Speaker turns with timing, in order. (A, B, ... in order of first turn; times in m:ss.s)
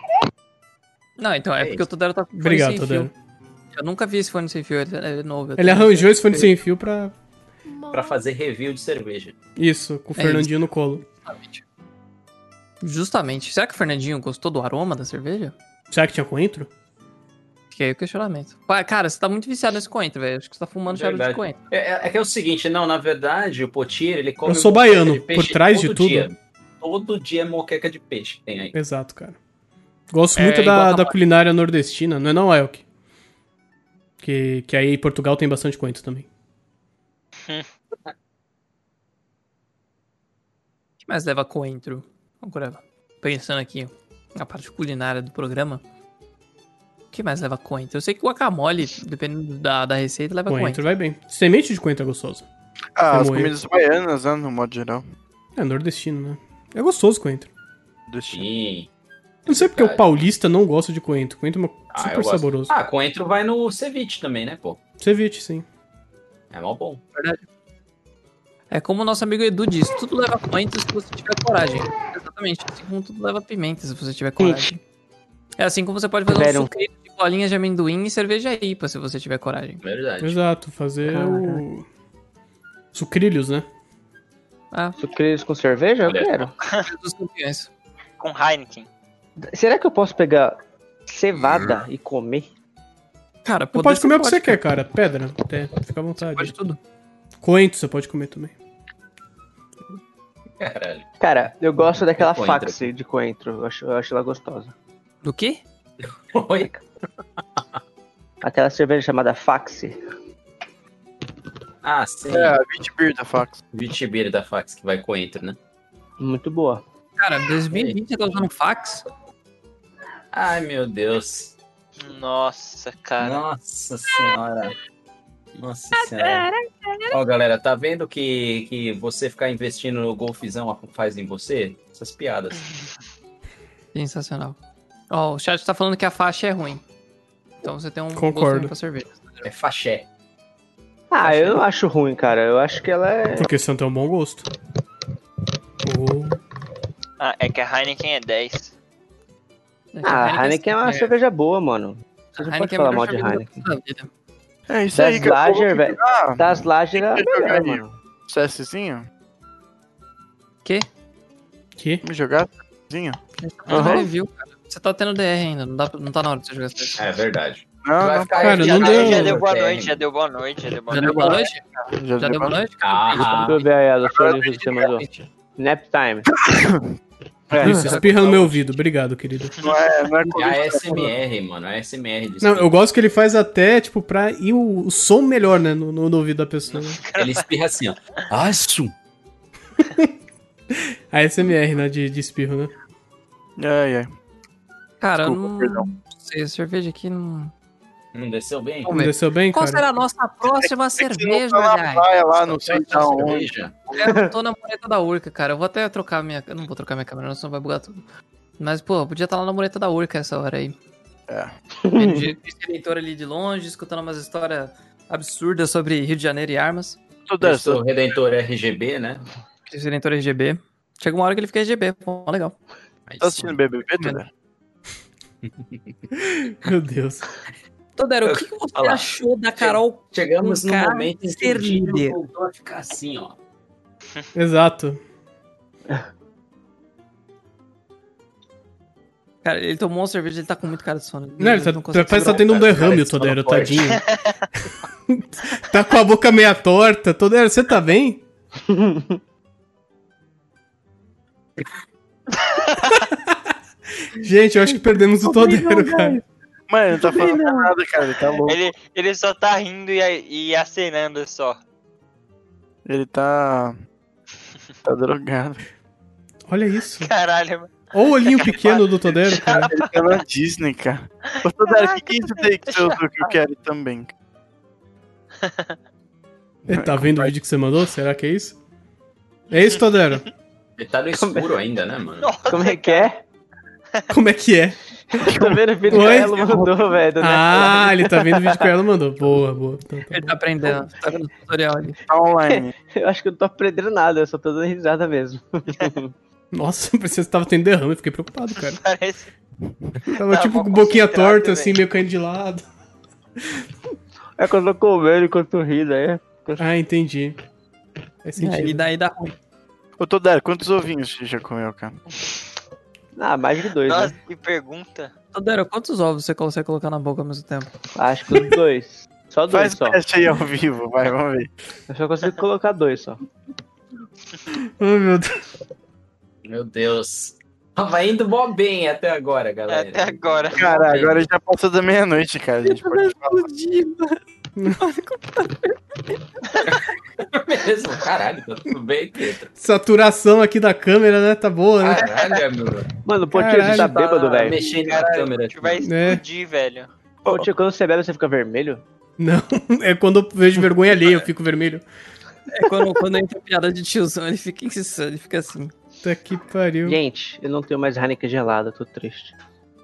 0:01.2-0:03.1 A
0:02.4-0:03.1 B
0:03.7-0:06.5 A
0:05.6-0:07.1 B
0:07.9-0:09.4 C
0:09.6-0:11.1 B
0:10.2-0:11.6 A
0:12.8-0:15.6 A
0:15.9-0:16.7 B
0:17.7-0:21.6 A
0:20.9-0:28.7 C
0:24.4-0:26.3 B
0:28.7-0:29.4 B
0:30.1-0:32.8 B
0:30.4-0:31.2 A
0:34.2-0:36.3 B
0:41.0-0:45.8 A
0:47.1-0:50.8 A
0:50.5-0:52.5 B
0:53.0-0:55.0 D
0:53.1-0:53.5 B
0:55.6-0:57.5 B
0:58.1-0:58.5 D
0:58.3-0:58.9 C
0:59.5-1:00.3 C
0:59.5-1:02.7 B
1:01.9-1:04.8 C
1:05.0-1:05.6 B
1:06.5-1:07.0 C
1:07.1-1:07.4 A
1:08.7-1:14.8 A
1:14.4-1:14.7 E
1:15.6-1:19.8 A
1:16.3-1:16.7 E
1:19.8-1:20.4 C
1:20.2-1:21.8 B
1:21.1-1:21.6 E
1:22.9-1:23.7 B
1:24.7-1:25.0 A
1:25.0-1:26.5 E
1:26.0-1:26.4 C
1:26.8-1:27.7 A
1:28.2-1:28.9 F
1:29.4-1:32.5 E
1:33.4-1:34.6 A
1:33.7-1:36.6 B
1:36.2-1:36.8 A
1:37.4-1:38.5 B
1:40.6-1:41.1 C
1:41.2-1:44.7 E
1:41.8-1:42.8 C
1:45.2-1:45.6 A
1:46.3-1:46.7 C
1:48.4-1:50.0 E
1:51.8-1:52.6 C
1:52.3-1:53.6 D
1:53.7-1:55.6 C
1:56.2-1:56.8 E
1:57.2-1:59.1 A
1:57.7-1:58.0 C
2:00.3-2:01.5 C
2:02.0-2:03.4 F
2:03.2-2:04.8 C
2:05.6-2:06.5 C
2:05.9-2:07.2 A
2:07.1-2:12.6 C
2:13.9-2:14.6 A
2:15.1-2:16.8 A
2:17.6-2:19.5 A
2:18.1-2:18.7 B
2:19.4-2:20.1 C
2:21.1-2:23.5 E
2:21.2-2:21.6 A
2:23.4-2:24.5 B
2:25.8-2:26.4 B
2:27.2-2:28.7 F
2:29.9-2:31.1 A
2:30.0-2:33.7 E
2:32.4-2:34.1 A
2:34.7-2:39.1 D
2:35.0-2:37.9 E
2:41.8-2:42.0 B
2:42.0-2:44.1 D
2:43.4-2:47.0 A
2:43.7-2:44.0 F
2:47.0-2:50.0 C
2:47.8-2:48.6 D
2:48.4-2:49.4 B
2:48.5-2:51.5 F
2:50.9-2:51.6 A
2:52.0-2:52.6 D
2:52.2-2:53.7 A
2:52.8-2:53.6 C
2:53.4-2:56.3 E
2:54.1-2:54.7 D
2:54.8-2:55.1 C
2:56.4-2:56.9 D
2:57.5-2:58.4 D
2:57.6-2:58.8 C
2:57.6-2:59.6 B
2:59.6-3:01.1 D
3:00.4-3:02.8 C
3:02.4-3:07.0 B
3:06.7-3:07.5 F
3:07.2-3:08.9 C
3:09.8-3:10.1 B
3:10.8-3:12.7 B
3:13.6-3:14.1 D
3:15.0-3:17.5 A
3:15.2-3:15.9 D
3:18.1-3:18.9 C
3:18.9-3:23.4 A
3:18.9-3:19.8 B
3:20.5-3:23.5 D
3:23.1-3:23.8 C
3:23.9-3:28.0 A
3:24.0-3:24.3 E
3:28.6-3:30.8 A
3:31.8-3:32.3 E
3:32.0-3:37.0 A
3:37.3-3:37.8 D
3:37.4-3:39.2 C
3:39.7-3:42.6 A
3:43.1-3:43.6 C
3:43.2-3:44.3 D
3:45.4-3:46.0 C
3:46.3-3:47.2 B
3:48.0-3:52.2 A
3:48.2-3:53.4 C
3:54.4-3:55.0 B
3:59.4-4:02.8 A
4:01.4-4:04.0 B
4:02.1-4:04.0 C
4:05.1-4:08.2 B
4:08.7-4:09.2 E
4:12.4-4:13.0 F
4:13.0-4:13.4 B
4:14.1-4:16.2 B
4:14.7-4:16.2 E
4:16.7-4:18.7 D
4:17.1-4:17.4 E
4:18.4-4:21.6 F
4:22.9-4:23.8 D
4:24.9-4:25.6 D
4:26.5-4:27.1 B
4:27.0-4:30.2 F
4:27.9-4:29.7 B
4:29.7-4:34.1 D
4:31.6-4:33.4 F
4:35.4-4:35.8 F
4:36.7-4:38.6 B
4:36.7-4:37.3 D
4:39.5-4:40.2 B
4:40.8-4:42.3 C
4:41.2-4:41.4 E
4:42.2-4:43.1 F
4:42.5-4:43.2 E
4:44.1-4:50.4 B
4:45.1-4:48.8 E
4:45.3-4:45.6 D
4:50.1-4:52.0 A
4:52.1-4:52.7 D
4:52.5-4:56.1 E
4:56.5-4:58.8 B
4:58.6-4:59.3 F
5:00.1-5:02.6 B
5:00.2-5:01.8 F
5:04.4-5:06.6 E
5:06.6-5:07.4 B
5:08.2-5:08.9 B
5:08.4-5:09.4 A
5:10.0-5:12.0 D
5:13.2-5:14.2 E
5:13.8-5:15.1 F
5:15.3-5:17.8 A
5:18.0-5:20.0 E
5:19.5-5:21.5 D
5:21.9-5:23.2 E
5:24.8-5:25.4 B
5:26.4-5:30.6 C
5:29.7-5:30.7 F
5:30.6-5:33.5 D
5:30.6-5:31.2 A
5:32.6-5:34.2 A
5:34.6-5:34.8 B
5:34.8-5:36.2 A
5:36.6-5:39.5 C
5:39.6-5:42.1 B
5:41.8-5:42.9 C
5:43.0-5:44.6 E
5:43.3-5:43.9 B
5:43.6-5:45.8 C
5:44.6-5:46.9 F
5:45.8-5:46.2 B
5:47.2-5:48.8 E
5:49.2-5:51.8 B
5:52.5-5:55.7 A
5:56.0-5:57.0 B
5:56.8-5:59.4 E